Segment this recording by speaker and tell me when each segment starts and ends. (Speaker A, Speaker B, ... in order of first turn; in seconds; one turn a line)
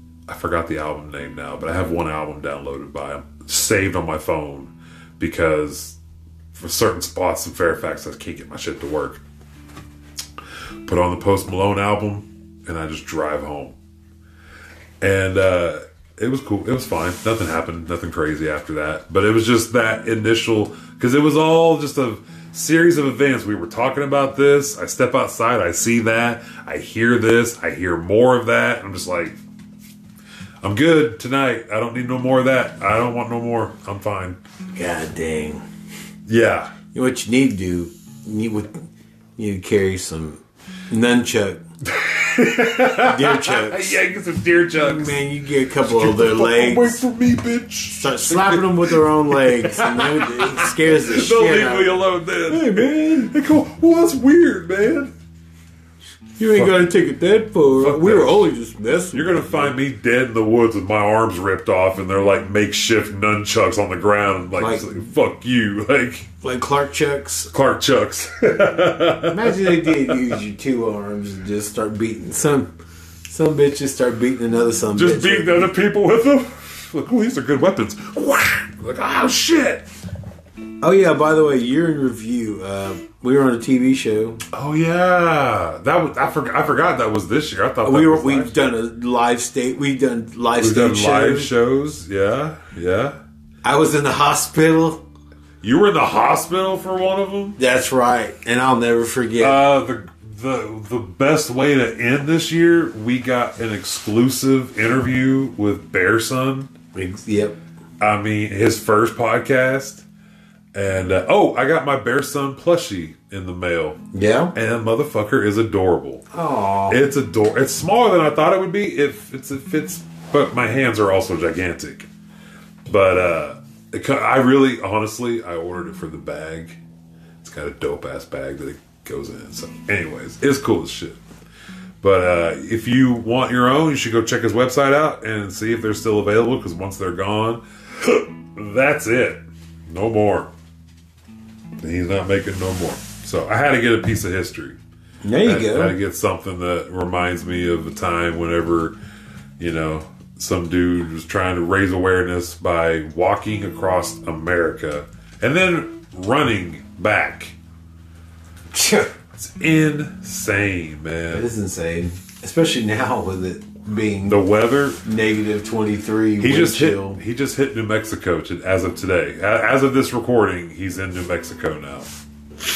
Speaker A: 0.3-6.0
Speaker A: 6.5-9.2
Speaker A: 10.8-13.8
Speaker A: 15.0-29.4
Speaker A: 30.6-34.4
Speaker B: 34.7-35.6
Speaker A: 36.3-36.7
Speaker B: 36.9-38.8
Speaker B: 39.4-41.6
Speaker A: 41.9-45.2
Speaker B: 42.7-44.0
Speaker B: 44.7-47.0
Speaker A: 45.8-55.1
Speaker B: 47.9-53.3
Speaker B: 56.4-59.7
Speaker A: 56.5-56.9
Speaker A: 57.8-58.5
Speaker A: 59.1-66.3
Speaker B: 64.6-64.9
Speaker B: 66.4-67.5
Speaker A: 67.5-70.3
Speaker B: 69.2-72.7
Speaker B: 73.3-75.7
Speaker A: 74.9-79.8
Speaker B: 80.8-84.4
Speaker A: 84.5-88.8
Speaker B: 87.8-91.5
Speaker A: 90.5-93.2
Speaker B: 93.6-95.0
Speaker A: 95.6-97.6
Speaker B: 97.6-99.6
Speaker A: 99.4-106.7
Speaker B: 106.9-107.6
Speaker A: 108.0-110.0
Speaker A: 110.7-114.0
Speaker B: 114.1-114.5
Speaker A: 114.5-116.2
Speaker B: 116.3-117.0
Speaker A: 116.9-122.1
Speaker A: 122.9-126.8
Speaker A: 127.4-131.2
Speaker A: 132.0-140.5
Speaker A: 141.8-144.8
Speaker B: 145.2-146.0
Speaker A: 145.4-148.9
Speaker A: 149.6-157.6
Speaker B: 158.7-159.1
Speaker A: 159.4-161.5
Speaker B: 161.3-164.4
Speaker A: 164.2-165.0
Speaker B: 165.0-167.2
Speaker A: 166.4-172.1